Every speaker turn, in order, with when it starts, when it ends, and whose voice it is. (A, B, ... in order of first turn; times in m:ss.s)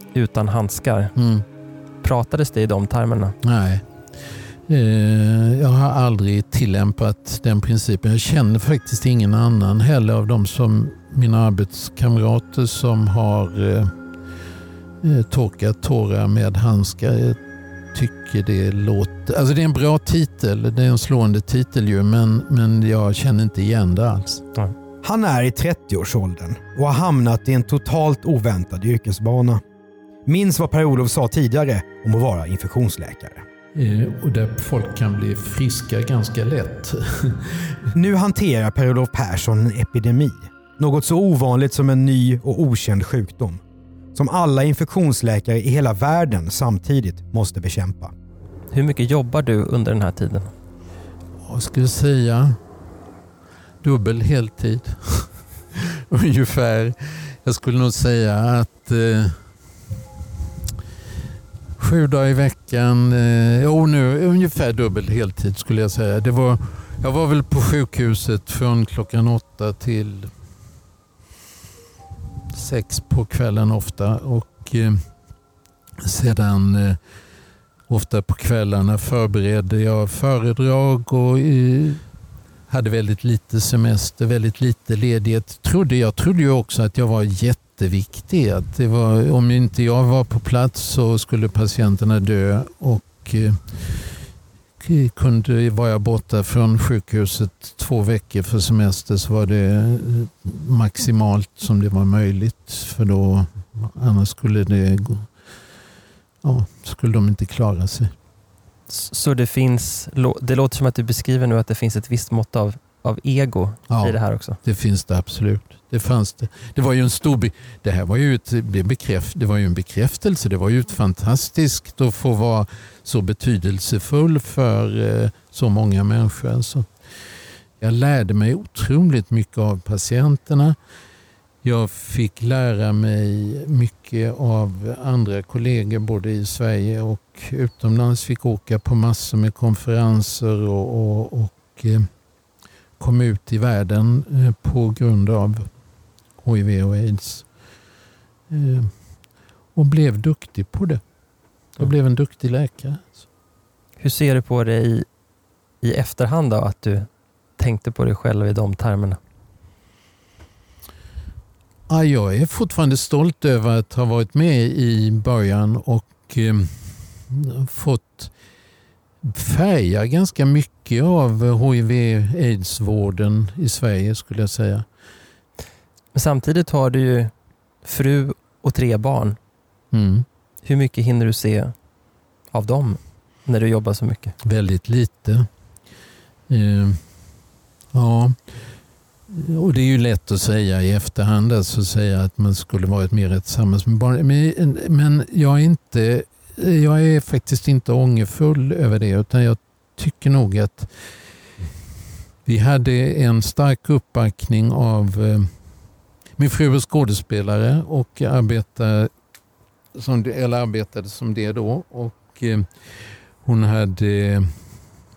0:00.1-0:01.1 A
0:01.2-0:01.4 B
0:02.0-0:03.4 A
0:03.4-0:03.8 B
0:04.7-0:13.9 B
0:15.0-0:17.4 B
0:17.9-0:24.5 B
0:25.0-0:29.6 C
0:30.3-0:33.4 C
0:33.7-0:37.9 B
0:37.9-0:43.6 C
0:44.1-0:48.1 C
0:48.7-0:50.5 A
0:51.4-0:52.6 B
0:53.8-0:59.4 B
1:01.8-1:10.3 B
1:12.5-1:15.1 B
1:16.0-1:17.0 B
1:17.9-1:22.0 B
1:22.7-1:34.1 B
1:34.8-1:45.3 B
1:46.4-1:48.1 B
1:48.9-1:54.6 A
1:53.9-2:06.9 B
2:07.8-2:10.8 B
2:11.6-2:22.1 B
2:23.0-2:25.7 B
2:26.4-2:27.4 B
2:28.5-2:28.9 B
2:29.8-2:31.0 B
2:31.8-2:33.1 B
2:34.0-2:35.1 A
2:35.8-2:37.1 A
2:37.6-2:39.2 A
2:41.9-2:48.3 B
2:49.2-2:54.9 B
2:56.1-2:57.3 A
2:57.8-2:59.4 A
2:59.9-3:00.3 B
3:00.6-3:01.7 A
3:02.5-3:04.3 A
3:04.4-3:05.5 B
3:06.5-3:07.0 B
3:07.9-3:08.5 B
3:09.3-3:20.9 B
3:22.4-3:25.5 B
3:26.4-3:29.1 B
3:29.9-3:32.7 B
3:33.4-3:34.5 B